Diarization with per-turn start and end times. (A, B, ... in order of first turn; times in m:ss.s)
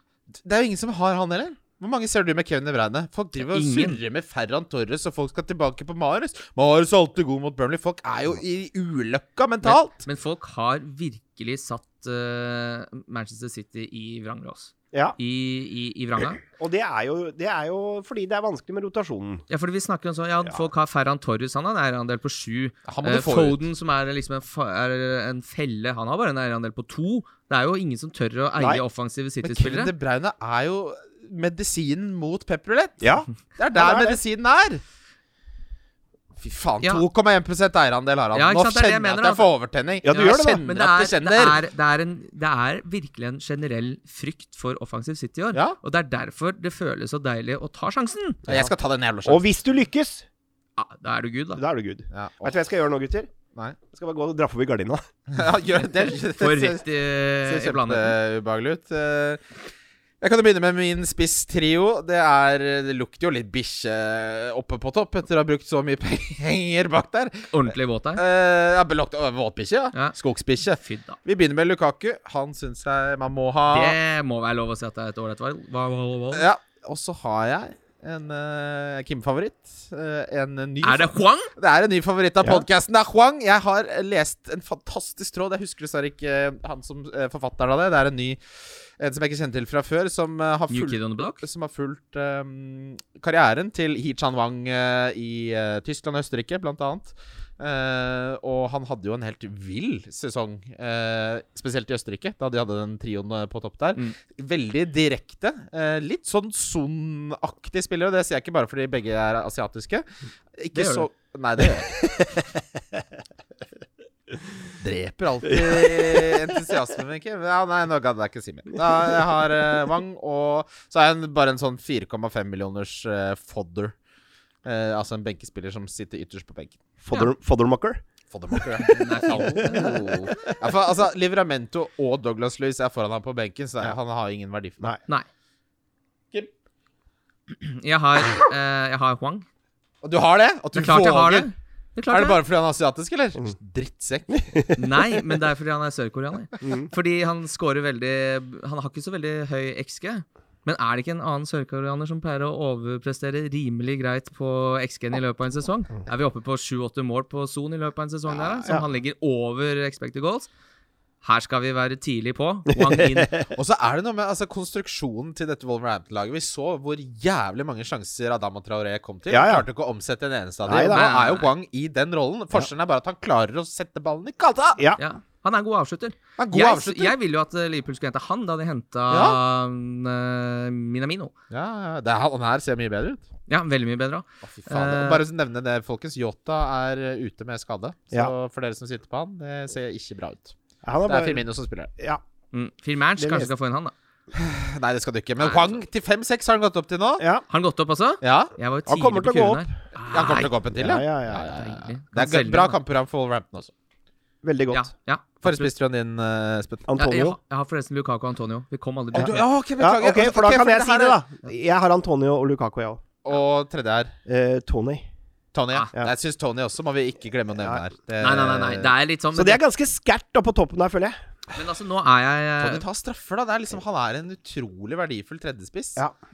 0:00.4-0:10.0 A
0:03.4-0:04.0 B
0:09.6-0:16.4 B
0:14.9-0:15.2 C
0:16.5-0:19.4 C
0:19.5-0:29.9 B
0:22.9-0:23.6 A
0:28.6-0:28.8 C
0:29.4-0:34.8 A
0:33.0-0:34.2 C
0:36.4-0:41.6 A
0:38.3-0:39.5 B
0:40.0-0:40.6 C
0:40.1-0:48.4 B
0:48.5-0:49.4 A
0:49.2-0:50.3 C
0:50.8-0:51.6 B
0:51.6-0:53.3 C
0:52.1-0:52.6 A
0:53.9-0:55.0 C
0:55.3-0:56.8 A
0:56.4-0:58.2 B
0:57.4-0:59.4 A
1:00.2-1:07.5 A
1:07.5-1:08.2 B
1:08.2-1:14.0 A
1:10.7-1:11.2 B
1:13.7-1:16.5 B
1:16.3-1:28.4 A
1:20.8-1:21.5 B
1:29.0-1:50.0 A
1:30.7-1:31.4 B
1:50.6-1:52.4 A
1:50.7-1:51.1 B
1:52.0-1:52.4 C
1:54.8-2:04.0 A
1:55.5-1:56.6 C
2:04.6-2:06.8 A
2:07.0-2:08.0 C
2:08.3-2:14.9 A
2:08.5-2:10.6 C
2:08.8-2:10.3 B
2:17.5-2:19.5 B
2:20.0-2:21.5 A
2:20.8-2:22.4 B
2:22.1-2:24.7 A
2:24.3-2:24.8 C
2:24.8-2:40.5 B
2:26.6-2:26.9 C
2:41.2-2:43.4 B
2:42.7-2:43.5 C
2:43.5-2:54.8 A
2:49.3-2:49.7 C
2:50.6-2:51.1 C
2:50.9-2:51.5 B
2:55.0-3:01.3 B
2:56.4-2:57.2 A
2:59.1-2:59.4 A
3:01.5-3:03.3 A
3:03.5-3:05.2 B
3:04.4-3:11.9 A
3:10.8-3:11.4 C
3:12.5-3:13.9 B
3:13.2-3:13.5 C
3:14.3-3:17.3 A
3:15.4-3:15.8 B
3:17.2-3:17.4 C
3:17.5-3:20.5 B
3:18.2-3:18.5 A
3:18.9-3:19.8 C
3:20.1-3:23.7 A
3:20.8-3:21.5 C
3:21.4-3:22.8 B
3:24.4-3:24.9 C
3:24.7-3:25.7 B
3:25.4-3:26.9 A
3:26.9-3:27.4 C
3:27.0-3:29.4 B
3:29.1-3:33.0 C
3:29.2-3:31.2 A
3:33.2-3:34.2 A
3:34.3-3:35.1 C
3:35.5-3:38.9 A
3:38.2-3:39.6 B
3:39.3-3:41.2 C
3:41.6-3:42.8 B
3:42.6-3:46.0 A